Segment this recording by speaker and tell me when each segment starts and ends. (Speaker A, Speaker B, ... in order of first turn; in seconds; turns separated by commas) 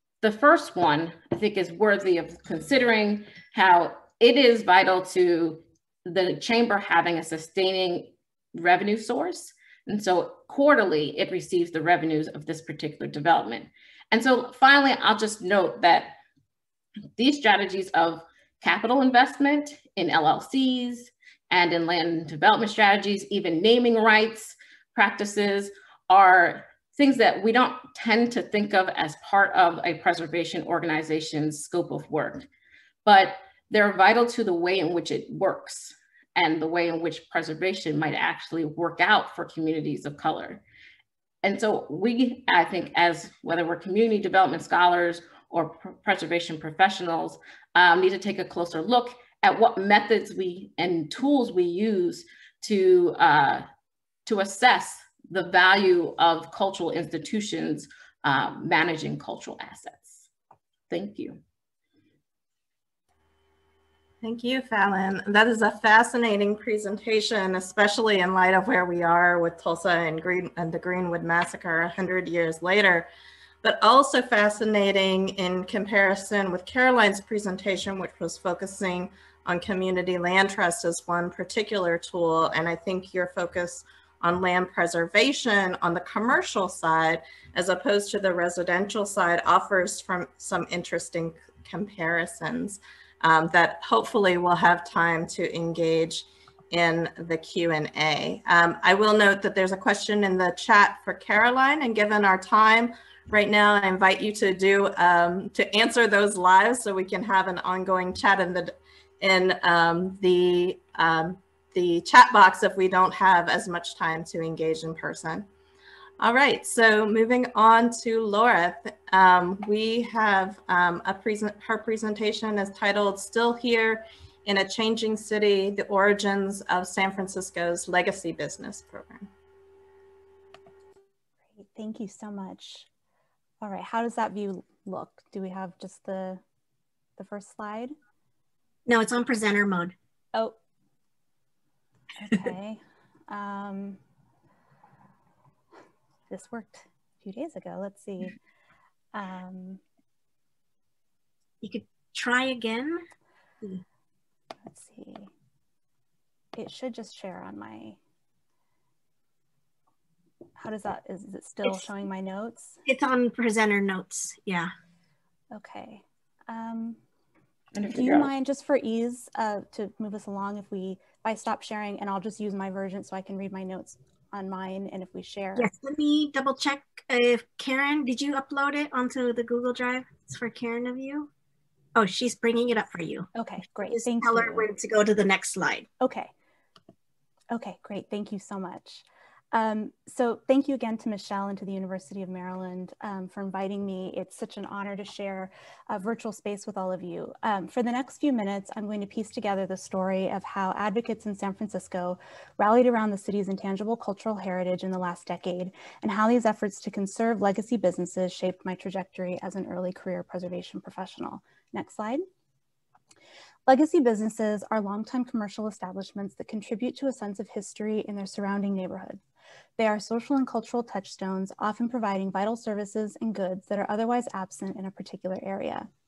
Speaker A: 0.2-16.1, Speaker A: 17.2-32.5, Speaker A: 33.0-40.6, Speaker A: 41.4-53.6, Speaker A: 54.2-60.3, Speaker A: 60.9-61.4, Speaker B: 64.2-73.1, Speaker B: 73.6-115.5, Speaker B: 116.2-129.3, Speaker C: 131.5-132.9, Speaker C: 133.6-136.4, Speaker C: 137.2-137.9, Speaker D: 138.9-139.9, Speaker C: 142.2-144.0, Speaker C: 146.3-148.3, Speaker C: 149.1-149.8, Speaker D: 151.6-153.0, Speaker C: 154.7-155.3, Speaker C: 156.6-158.0, Speaker C: 160.6-162.8, Speaker D: 162.8-164.7, Speaker C: 165.5-167.0, Speaker A: 167.7-168.3, Speaker C: 167.9-175.7, Speaker D: 175.6-181.3, Speaker D: 181.9-183.3, Speaker C: 183.3-184.7, Speaker D: 183.9-185.9, Speaker C: 186.0-186.3, Speaker C: 187.5-212.2, Speaker C: 213.7-219.2, Speaker C: 219.8-225.9